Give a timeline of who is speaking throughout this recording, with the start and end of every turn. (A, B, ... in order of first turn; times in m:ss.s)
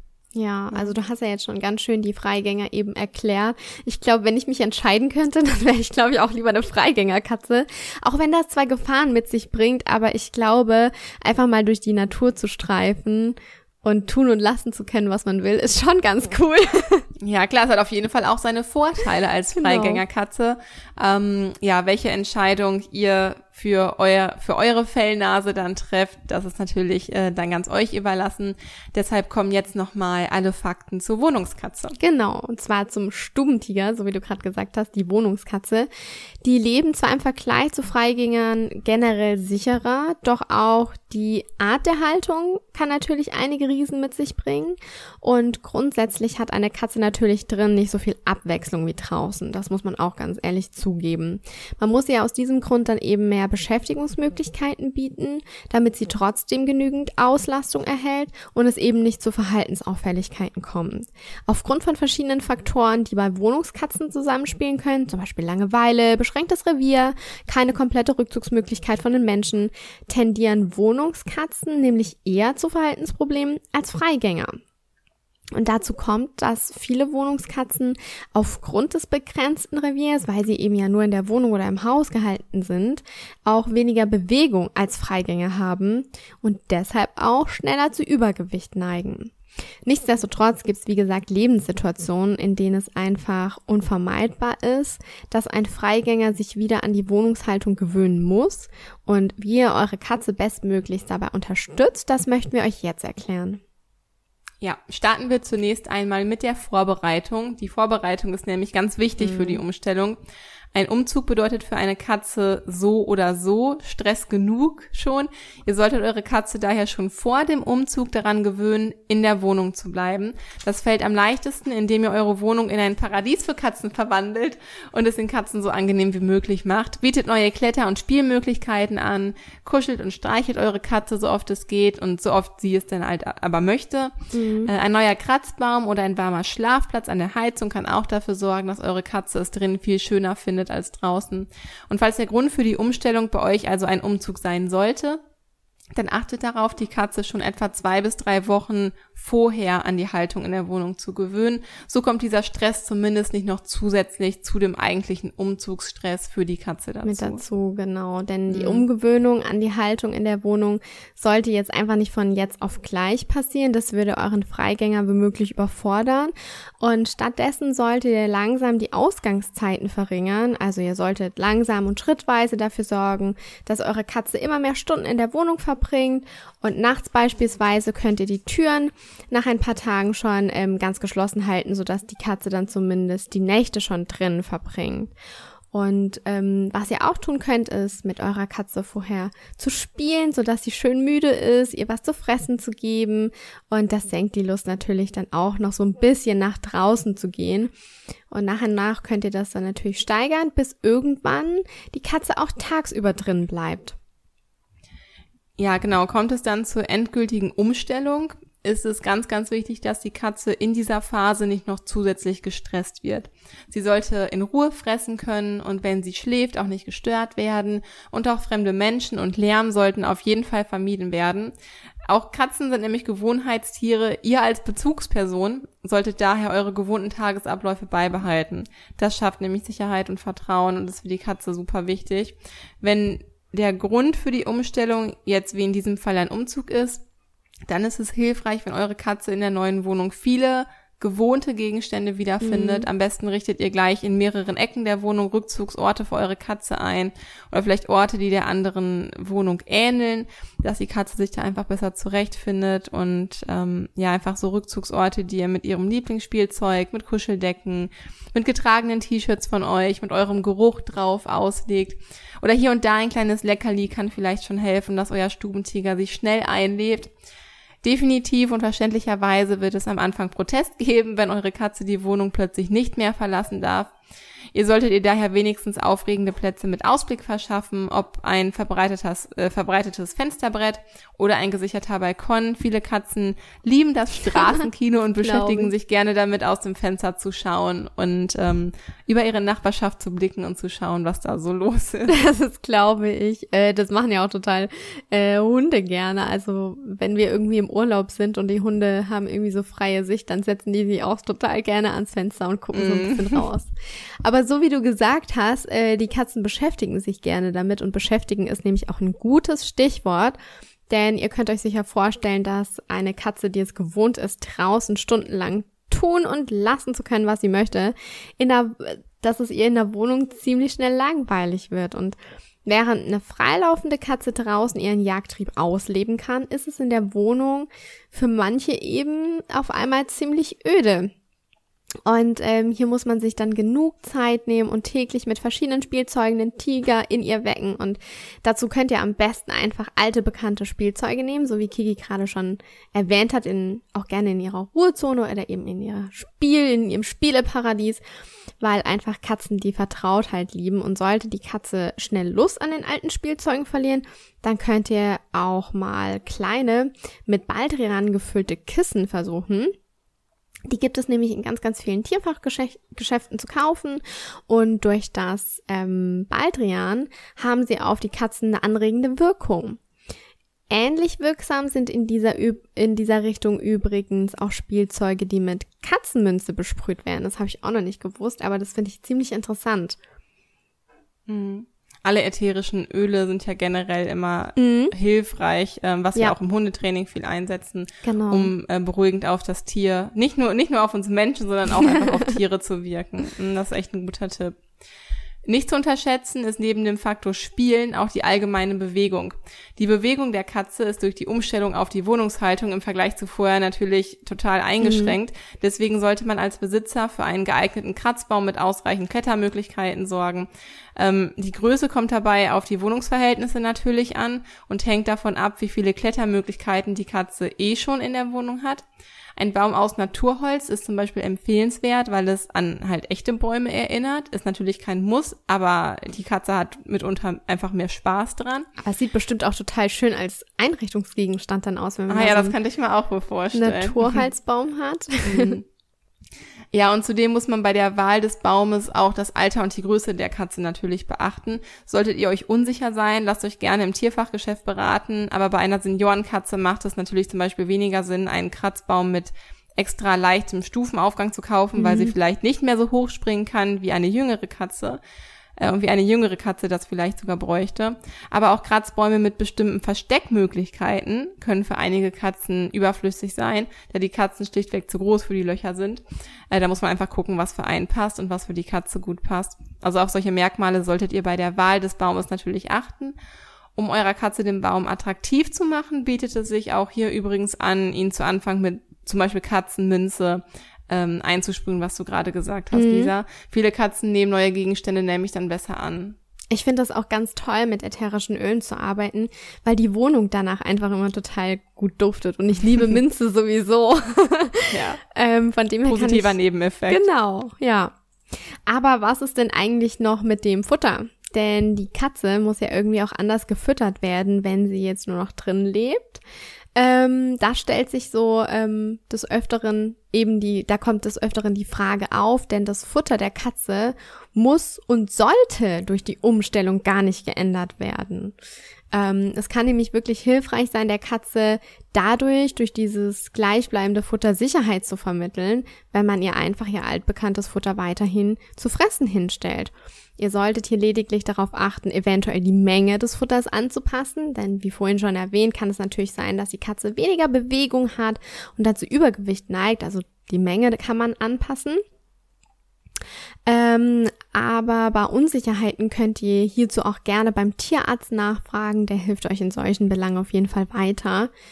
0:00.3-0:17.0 A
0:00.7-0:01.0 B
0:17.2-0:31.9 B
0:19.5-0:20.0 A
0:32.0-0:35.9 A
0:36.4-1:14.6 A
1:15.5-1:29.3 A
1:29.8-1:43.6 A
1:44.6-1:50.2 B
1:49.2-1:49.6 A
1:50.7-2:14.1 B
2:14.3-2:14.7 A
2:14.6-2:25.2 B
2:26.0-2:37.4 B
2:37.0-3:05.1 A
2:38.5-2:38.8 B
3:05.7-3:17.7 A
3:18.3-3:24.0 A
3:25.6-3:41.5 B
3:42.1-3:57.0 B
3:57.7-4:27.1 B
4:02.4-4:02.9 A
4:27.8-4:33.9 B
4:34.5-4:52.1 B
4:44.3-4:44.6 A
4:45.2-4:45.7 A
4:52.1-5:10.4 A
5:02.7-5:03.4 B
5:10.9-5:31.1 A
5:32.0-5:48.0 A
5:48.6-5:59.7 A
6:00.7-6:09.8 A
6:10.7-6:20.0 A
6:21.3-6:34.6 B
6:24.6-6:24.9 A
6:28.0-6:28.5 A
6:35.4-6:58.8 B
6:44.8-6:45.1 A
6:59.4-7:08.7 B
7:08.8-7:12.6 A
7:12.1-7:14.2 B
7:13.5-7:15.6 A
7:15.2-7:15.6 B
7:16.7-7:35.0 B
7:31.7-7:32.1 A
7:35.6-7:53.1 B
7:53.8-8:06.2 B
8:02.7-8:03.1 A
8:06.5-8:16.4 A
8:14.7-8:15.0 B
8:15.8-8:17.0 B
8:16.9-8:17.9 A
8:18.7-8:26.2 A
8:26.7-8:38.3 A
8:38.9-9:01.8 A
9:03.4-9:11.3 A